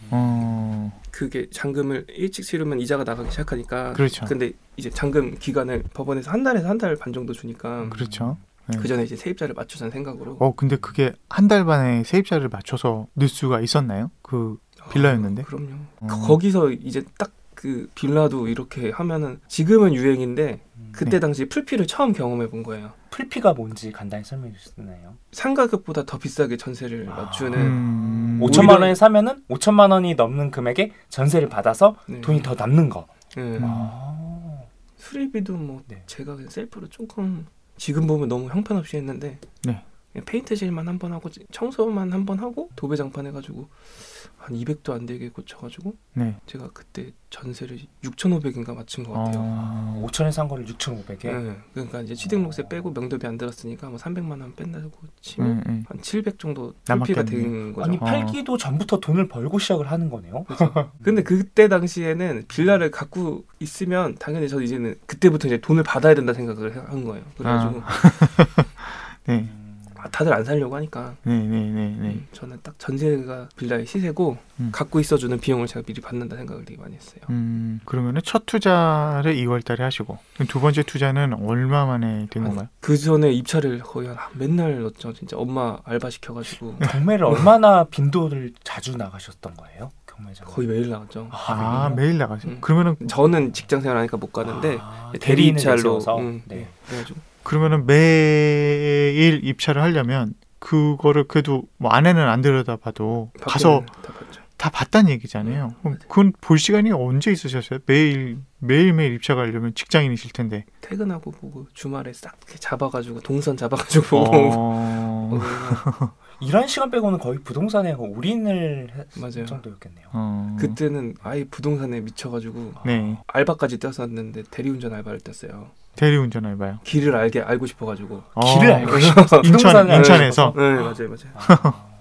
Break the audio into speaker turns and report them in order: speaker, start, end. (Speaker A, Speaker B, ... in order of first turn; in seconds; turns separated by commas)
Speaker A: 0.1-1.0, Speaker B: 1.1-8.0, Speaker A: 3.9-4.3, Speaker A: 7.9-8.9, Speaker C: 7.9-8.4, Speaker B: 8.7-10.4, Speaker A: 10.4-15.5, Speaker B: 14.8-23.0, Speaker A: 16.0-16.4, Speaker C: 23.1-25.2, Speaker B: 25.3-27.8, Speaker C: 27.1-27.8, Speaker A: 27.6-28.8, Speaker C: 28.4-34.7, Speaker B: 28.4-28.9, Speaker B: 32.1-32.5, Speaker B: 33.4-33.7, Speaker A: 33.6-33.9, Speaker B: 35.0-39.4, Speaker B: 40.1-49.5, Speaker A: 49.1-50.1, Speaker C: 49.5-51.4, Speaker B: 51.2-58.1, Speaker A: 55.4-55.9, Speaker A: 56.9-58.4, Speaker C: 57.8-61.0, Speaker B: 60.5-68.0, Speaker A: 67.4-69.5, Speaker C: 69.6-69.9, Speaker B: 70.0-71.2, Speaker A: 71.2-72.2, Speaker B: 72.0-77.3, Speaker A: 77.3-82.7, Speaker B: 82.4-86.9, Speaker C: 86.8-90.7, Speaker B: 90.5-97.2, Speaker C: 91.3-92.0, Speaker A: 91.5-93.2, Speaker C: 94.4-96.7, Speaker A: 97.5-103.9, Speaker B: 103.4-104.4, Speaker A: 104.6-110.7, Speaker B: 105.4-106.0, Speaker B: 110.8-115.9, Speaker A: 114.1-116.1, Speaker C: 116.4-120.1, Speaker B: 119.2-119.6, Speaker A: 120.1-120.8, Speaker B: 120.6-125.7, Speaker A: 122.8-123.2, Speaker C: 122.8-123.2, Speaker A: 126.0-126.8, Speaker B: 126.8-131.4, Speaker A: 128.4-130.6, Speaker C: 128.4-130.8, Speaker C: 131.3-131.9, Speaker A: 131.4-131.8